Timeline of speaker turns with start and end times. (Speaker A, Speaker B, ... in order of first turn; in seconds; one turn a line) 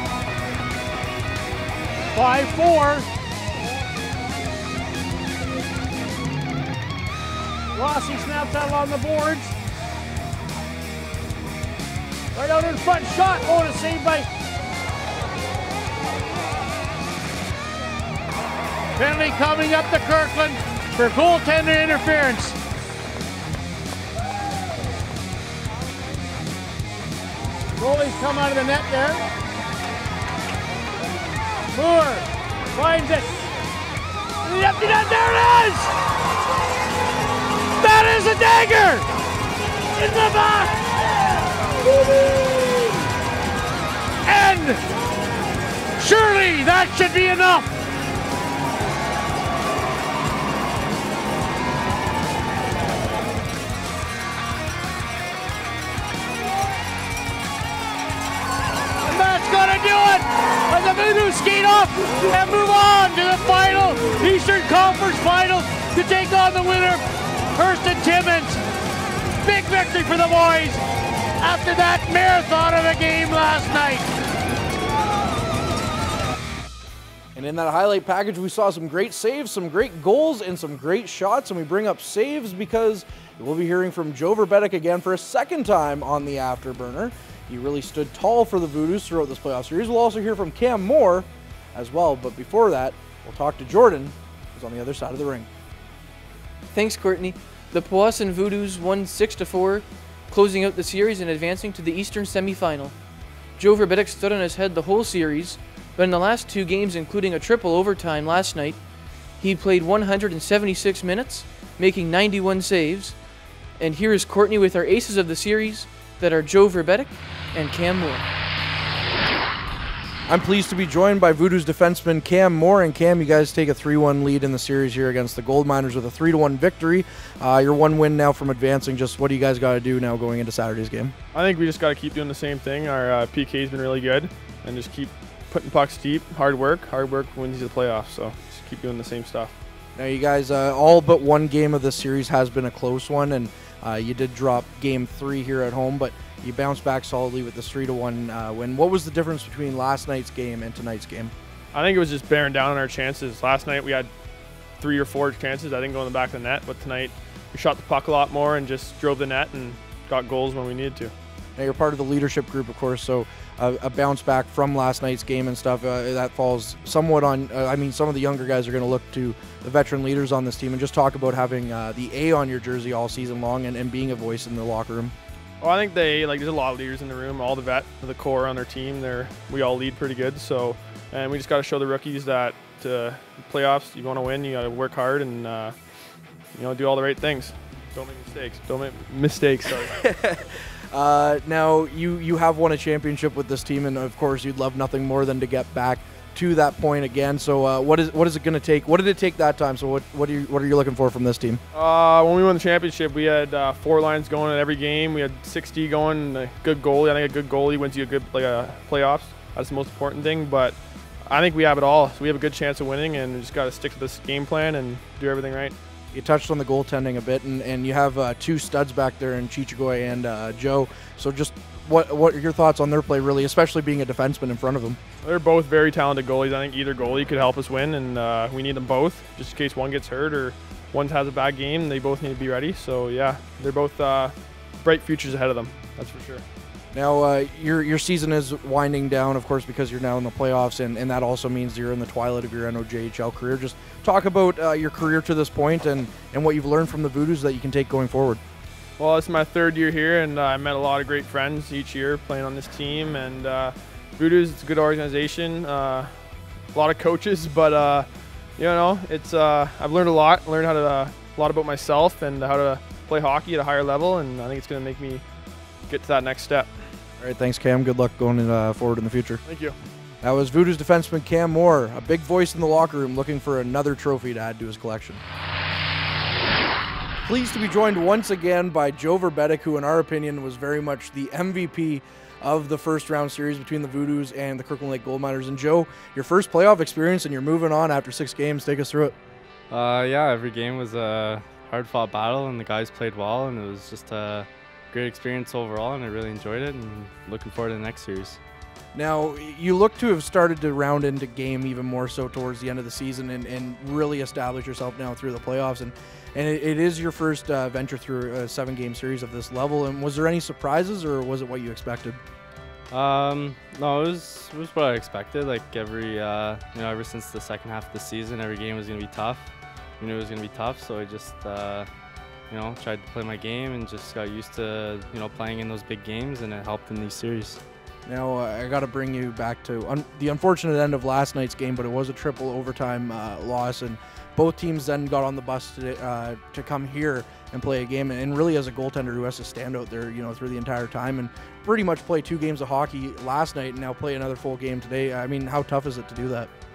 Speaker A: 2.1-3.1
Speaker A: 7.7-9.5
Speaker A: 12.3-14.3
Speaker A: 18.9-22.6
Speaker A: 27.8-29.2
Speaker A: 31.7-33.3
Speaker A: 34.4-35.9
Speaker A: 37.8-39.1
Speaker A: 40.0-40.7
Speaker A: 44.2-44.8
Speaker A: 46.0-47.7
Speaker A: 59.0-68.6
Speaker A: 69.3-70.8
Speaker A: 71.4-74.1
Speaker B: 77.3-95.5
Speaker C: 96.7-102.9
Speaker C: 103.6-108.8
Speaker C: 109.4-113.2
Speaker C: 113.8-118.3
Speaker B: 120.3-131.1
Speaker D: 131.3-139.5
Speaker B: 139.9-151.3
Speaker D: 151.7-154.1
Speaker D: 154.8-161.1
Speaker B: 161.6-175.1
Speaker D: 175.6-185.7
Speaker D: 186.5-190.1
Speaker B: 190.0-201.6
Speaker D: 201.7-210.8
Speaker D: 211.3-215.7
Speaker B: 216.1-225.0
Speaker D: 225.2-236.4
Speaker B: 236.9-248.4
Speaker D: 249.0-265.2
Speaker D: 265.9-266.7
Speaker B: 267.2-269.4
Speaker D: 269.4-269.8
Speaker B: 270.2-275.2
Speaker B: 277.2-289.1
Speaker E: 289.7-298.4
Speaker B: 298.9-312.2
Speaker E: 312.9-319.5
Speaker E: 320.0-321.9
Speaker E: 322.5-327.6
Speaker B: 328.1-346.5